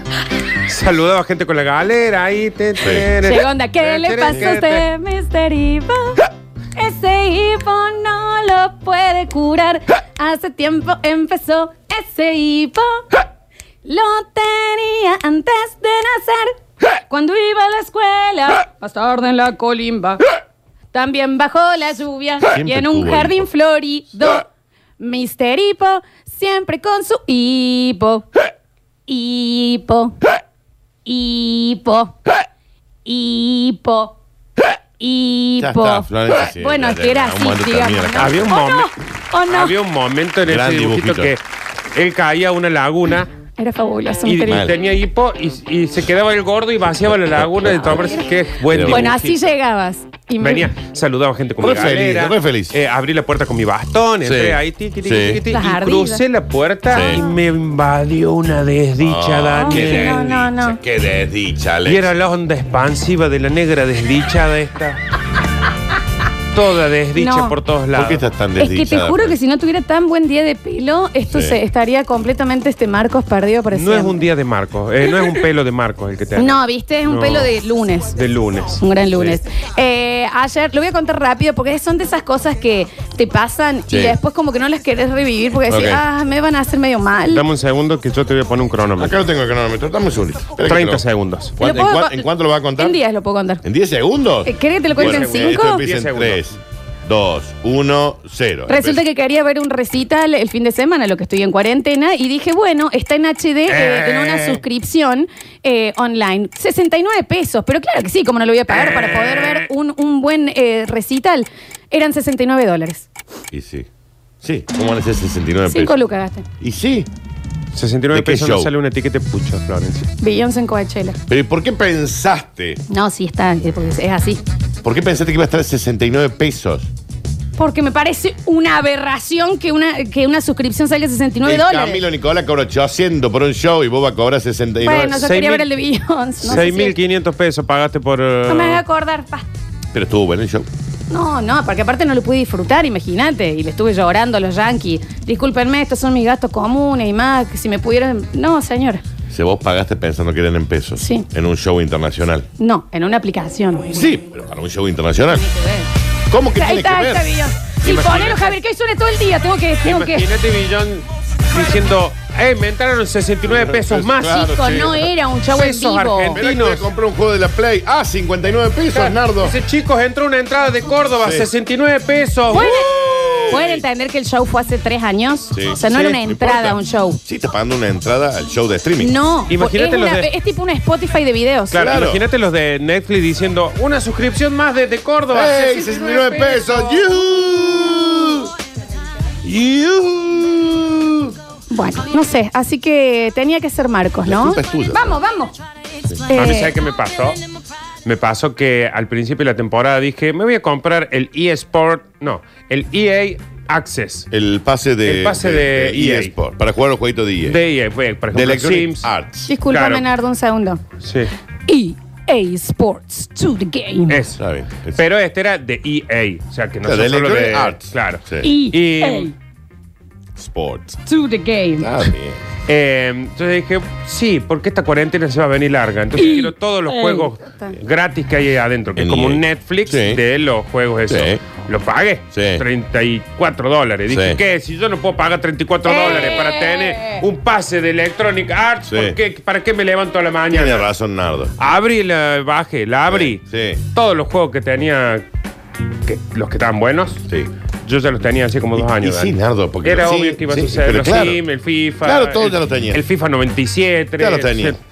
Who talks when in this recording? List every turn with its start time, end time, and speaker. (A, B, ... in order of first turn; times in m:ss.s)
0:00.7-0:04.9 A
0:02.8-0:03.1 B
0:03.2-0:13.1 C
0:13.8-0:20.2 C
0:20.9-0:24.5 C
0:22.5-0:23.5 B
0:25.0-0:28.3 C
0:29.1-0:30.2 C
0:31.0-0:32.2 C
0:33.0-0:34.2 C
0:35.0-0:39.8 C
0:35.6-0:38.6 B
0:38.2-0:38.9 A
0:39.5-0:41.4 A
0:40.5-0:41.3 B
0:42.0-0:43.3 A
0:43.6-0:44.8 C
0:44.3-0:49.5 A
0:44.5-0:44.8 B
0:47.1-0:49.1 B
0:47.9-0:48.2 C
0:48.9-0:50.7 C
0:50.4-1:00.3 A
0:51.6-0:52.8 B
0:54.2-0:55.4 B
0:55.5-0:56.2 C
0:56.9-0:57.2 B
0:57.0-0:57.2 C
0:59.0-1:02.1 B
0:59.6-1:00.8 C
1:01.9-1:05.0 A
1:06.5-1:08.2 A
1:07.2-1:07.6 C
1:07.9-1:09.4 B
1:08.6-1:14.2 C
1:11.3-1:11.6 B
1:13.7-1:17.5 A
1:16.4-1:18.1 C
1:18.1-1:19.4 A
1:18.8-1:27.4 C
1:23.9-1:24.2 B
1:25.7-1:26.0 B
1:27.3-1:29.2 A
1:29.0-1:31.0 B
1:30.6-1:31.6 A
1:31.6-1:33.0 B
1:31.6-1:32.3 C
1:32.8-1:33.6 C
1:33.6-1:39.0 B
1:34.4-1:35.8 C
1:34.9-1:36.4 A
1:38.7-1:53.1 C
1:43.7-1:44.6 A
1:48.7-1:49.7 A
1:53.5-1:53.9 B
1:54.4-1:56.0 B
1:55.7-1:56.5 C
1:56.6-1:57.1 B
1:57.7-2:00.1 A
1:58.1-1:58.7 B
2:00.2-2:01.2 C
2:01.3-2:02.8 B
2:02.9-2:04.4 C
2:04.8-2:06.9 B
2:07.6-2:12.0 C
2:11.4-2:15.2 B
2:14.8-2:16.9 C
2:15.1-2:15.7 A
2:16.4-2:18.8 A
2:18.5-2:19.5 C
2:19.9-2:20.7 B
2:21.1-2:29.0 C
2:29.3-2:32.5 B
2:31.0-2:31.3 C
2:32.6-2:33.9 C
2:33.9-2:35.5 B
2:35.4-2:35.9 C
2:36.3-2:37.3 B
2:36.6-2:40.3 C
2:37.8-2:38.6 A
2:39.8-2:45.0 A
2:43.5-2:45.1 B
2:44.4-2:46.4 C
2:45.5-2:46.9 A
2:46.4-2:49.6 B
2:48.9-2:52.8 A
2:51.2-2:51.5 B
2:52.5-2:57.2 C
2:52.5-2:53.6 B
2:53.3-2:53.8 A
2:55.5-2:59.1 B
2:55.8-2:56.2 A
2:59.0-3:01.9 C
2:59.5-3:00.3 A
3:01.7-3:05.6 A
3:01.7-3:02.2 B
3:05.3-3:08.5 B
3:05.5-3:06.9 C
3:09.4-3:11.4 B
3:11.7-3:15.6 C
3:14.2-3:15.2 B
3:16.2-3:16.8 C
3:16.3-3:17.4 A
3:18.0-3:24.3 A
3:24.3-3:27.6 B
3:25.0-3:26.3 A
3:27.5-3:29.1 A
3:28.3-3:29.5 B
3:29.5-3:30.8 C
3:29.7-3:30.1 A
3:31.0-3:31.3 A
3:31.7-3:34.2 C
3:34.1-3:34.4 A
3:34.4-3:35.0 B
3:35.0-3:39.3 A
3:36.8-3:38.5 B
3:38.4-3:39.3 C
3:40.4-3:41.0 B
3:41.1-3:42.1 C
3:41.8-3:42.4 B
3:42.7-4:00.9 A
3:46.2-3:47.8 C
3:49.0-3:50.2 B
3:51.1-3:51.4 B
3:52.3-3:52.6 B
3:54.1-3:54.4 B
3:55.9-3:57.2 C
3:58.9-3:59.2 B
4:00.5-4:01.6 B
4:01.6-4:05.2 A
4:03.1-4:03.8 B
4:06.0-4:07.2 A
4:07.8-4:14.8 A
4:08.8-4:11.4 B
4:12.0-4:13.0 B
4:14.2-4:14.8 B